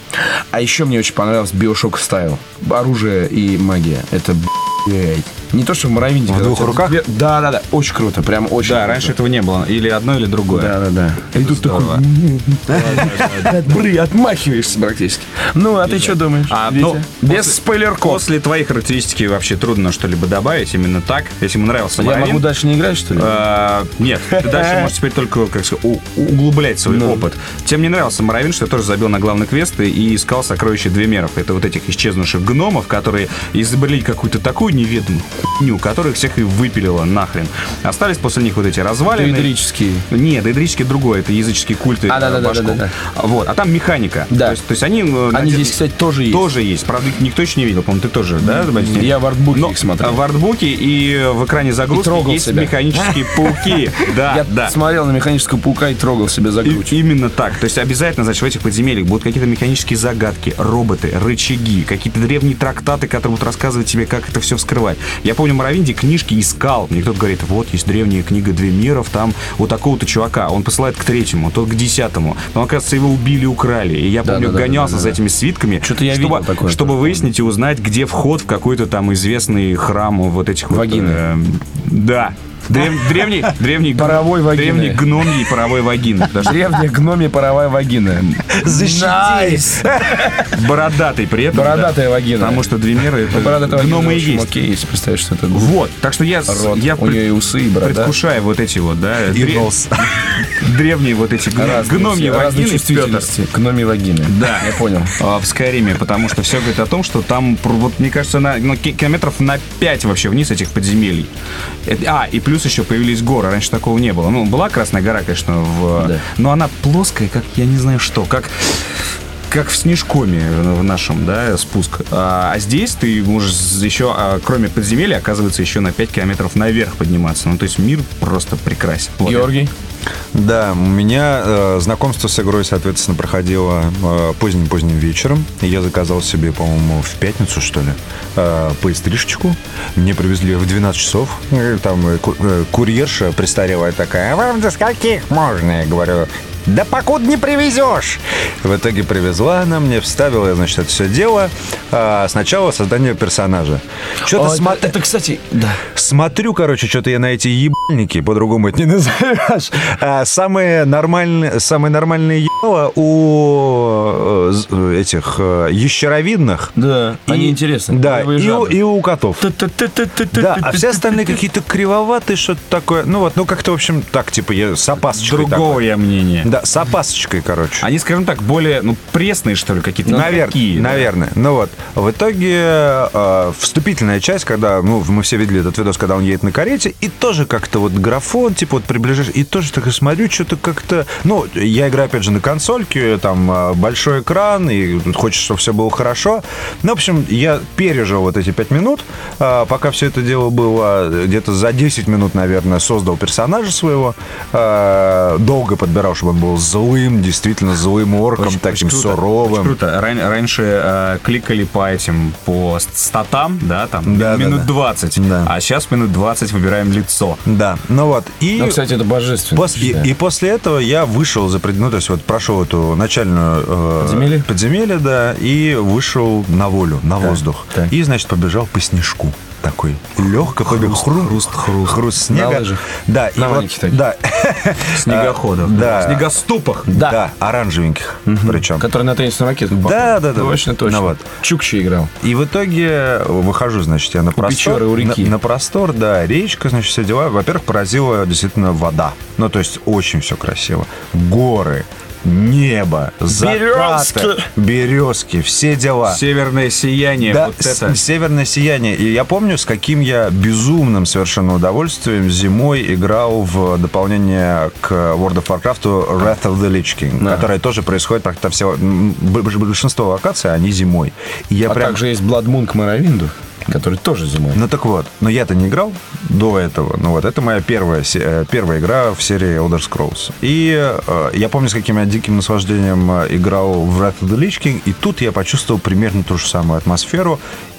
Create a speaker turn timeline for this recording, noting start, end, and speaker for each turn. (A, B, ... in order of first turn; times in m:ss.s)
0:00.5-0:09.2 A
0:06.3-0:07.0 B
0:08.6-0:10.8 C
0:10.5-0:18.2 A
0:11.4-0:12.0 C
0:12.7-0:13.6 C
0:15.9-0:22.5 C
0:22.0-0:23.4 A
0:23.2-0:39.5 C
0:24.3-0:24.9 A
0:26.9-0:27.2 A
0:39.1-0:40.1 A
0:40.1-0:54.7 C
0:42.1-0:42.9 A
0:44.3-0:44.6 A
0:45.3-0:46.5 A
0:48.4-0:50.2 A
0:51.9-0:57.0 A
0:56.6-1:26.7 C
1:14.2-1:15.2 A
1:15.8-1:17.3 A
1:20.7-1:21.2 A
1:24.0-1:25.1 A
1:26.4-1:30.5 A
1:28.5-1:30.5 B
1:30.4-1:34.5 C
1:31.5-1:32.7 A
1:33.3-1:35.8 A
1:35.5-1:43.3 C
1:36.5-1:38.1 A
1:39.3-1:40.4 B
1:41.6-1:45.2 A
1:44.3-1:51.3 C
1:51.9-2:09.5 C
1:56.0-1:56.2 A
2:09.2-2:09.7 A
2:10.3-2:35.0 B
2:34.2-2:35.8 A
2:35.9-2:46.7 B
2:46.8-2:48.8 A
2:47.3-2:49.5 B
2:49.4-2:51.4 A
2:50.3-2:55.8 B
2:55.1-2:56.5 C
2:56.4-2:57.9 B
2:57.8-3:01.1 C
3:00.1-3:29.8 B
3:28.4-3:37.4 C
3:34.1-3:35.5 B
3:37.5-3:38.8 B
3:38.6-3:40.1 A
3:39.6-3:56.3 B
3:44.0-3:44.5 A
3:50.6-3:52.0 C
3:52.3-3:52.8 A
3:53.4-3:54.0 A
3:54.9-3:56.9 C
3:56.9-3:57.2 A
3:56.9-3:58.8 B
3:58.3-4:02.1 A
3:59.8-4:01.2 B
4:02.2-4:16.2 B
4:04.4-4:05.3 A
4:13.3-4:14.5 A
4:16.0-4:18.0 C
4:17.2-4:32.0 B
4:27.2-4:27.5 A
4:31.7-4:34.6 A
4:34.5-4:47.4 B